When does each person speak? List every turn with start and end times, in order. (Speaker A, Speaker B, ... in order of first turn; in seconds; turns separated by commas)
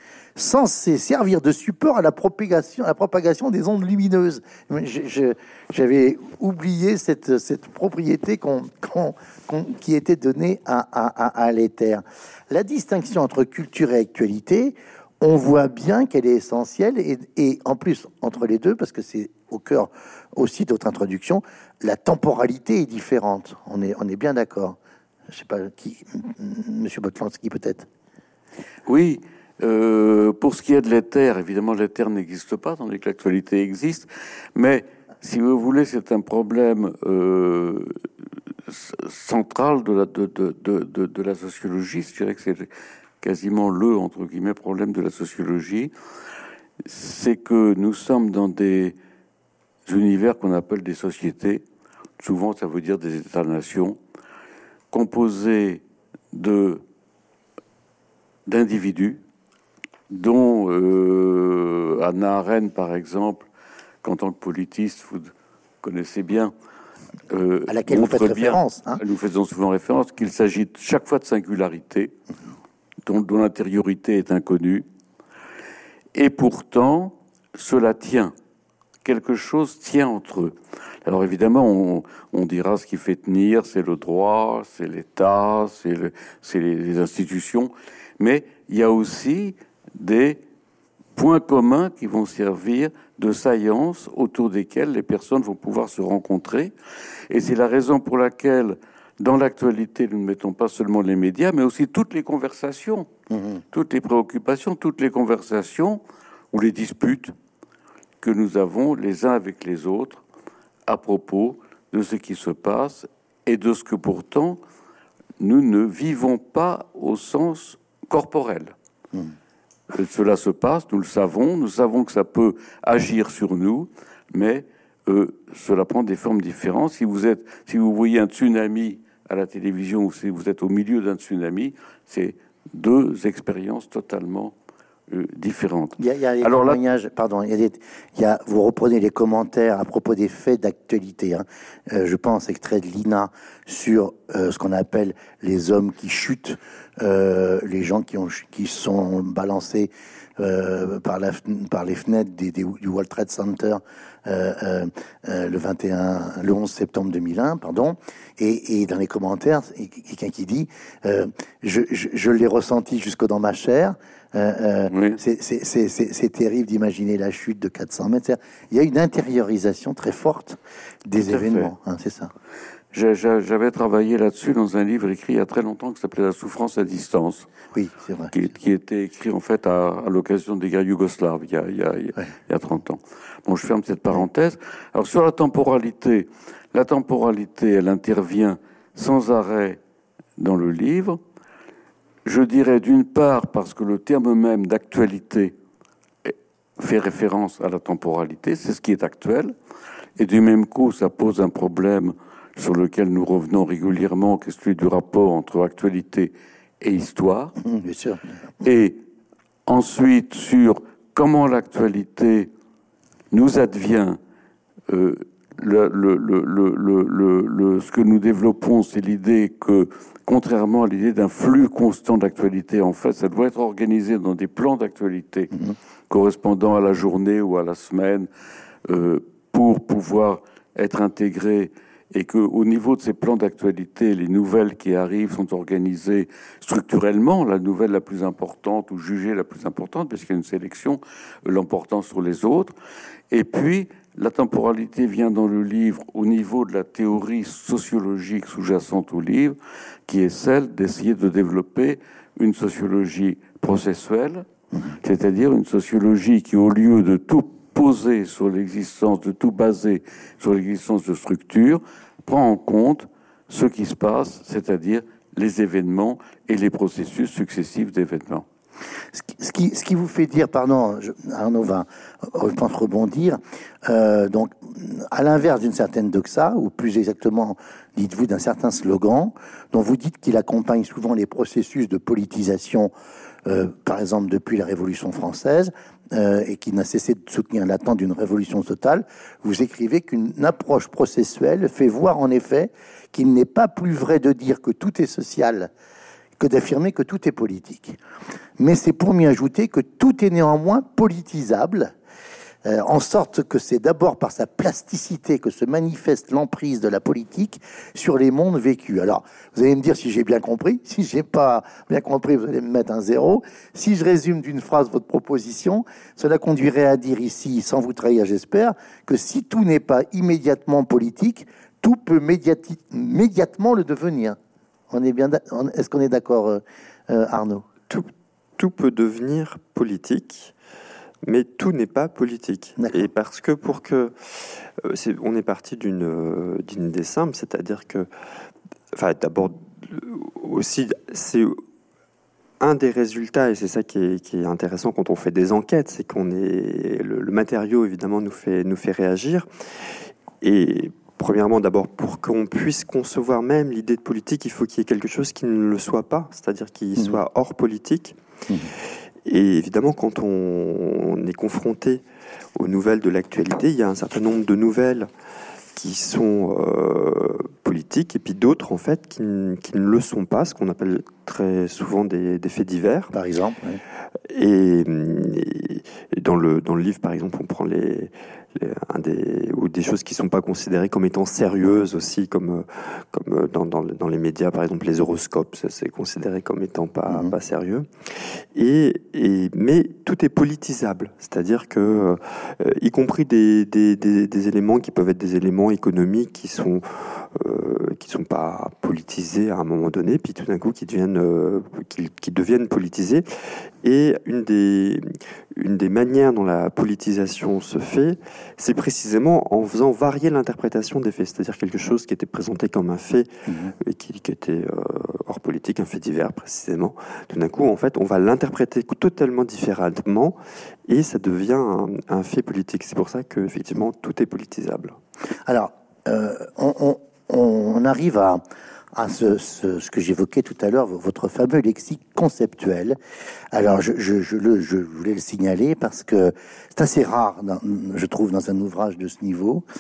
Speaker A: 0.4-24.8, Speaker A: 25.3-27.9, Speaker B: 28.9-38.0, Speaker B: 38.7-42.7, Speaker B: 43.2-45.9, Speaker B: 46.8-49.0, Speaker B: 49.9-51.6, Speaker B: 52.2-54.0, Speaker B: 54.9-56.8, Speaker B: 58.5-59.2, Speaker B: 60.1-63.5, Speaker B: 64.0-66.5, Speaker B: 67.3-72.1, Speaker A: 67.7-69.0, Speaker B: 73.1-74.8, Speaker B: 76.1-78.3, Speaker B: 79.0-90.4, Speaker B: 91.2-96.7, Speaker B: 97.3-103.1, Speaker A: 103.3-103.6, Speaker B: 103.7-106.0, Speaker B: 106.5-107.3, Speaker B: 108.2-110.2, Speaker B: 110.9-114.6, Speaker B: 115.4-118.7, Speaker B: 119.9-134.5, Speaker B: 135.1-136.8, Speaker A: 136.0-172.3, Speaker B: 164.9-165.2, Speaker B: 171.2-171.7, Speaker B: 172.9-177.5, Speaker A: 177.7-178.3, Speaker B: 178.3-189.8, Speaker B: 190.4-191.2, Speaker B: 192.2-195.6, Speaker B: 196.2-199.5, Speaker B: 200.2-207.6, Speaker A: 207.6-208.2, Speaker B: 208.6-209.0, Speaker B: 209.7-212.5, Speaker B: 213.3-214.2, Speaker B: 214.9-225.5, Speaker B: 226.1-228.3, Speaker B: 228.9-242.7, Speaker B: 243.3-254.5, Speaker B: 255.0-268.4, Speaker A: 269.1-282.9, Speaker A: 283.5-295.7, Speaker A: 296.4-298.0, Speaker A: 298.6-301.9, Speaker A: 302.6-324.4, Speaker A: 324.9-327.7, Speaker C: 327.9-330.5, Speaker C: 331.2-338.1, Speaker A: 332.8-333.1, Speaker C: 338.9-341.6, Speaker C: 342.6-349.5, Speaker C: 350.4-358.2, Speaker C: 359.2-362.0, Speaker C: 362.6-365.1, Speaker C: 365.8-373.1, Speaker A: 373.1-373.8, Speaker C: 374.3-424.9, Speaker A: 387.1-387.4, Speaker A: 413.5-413.7, Speaker A: 425.5-428.4, Speaker A: 428.9-433.0, Speaker A: 433.5-439.6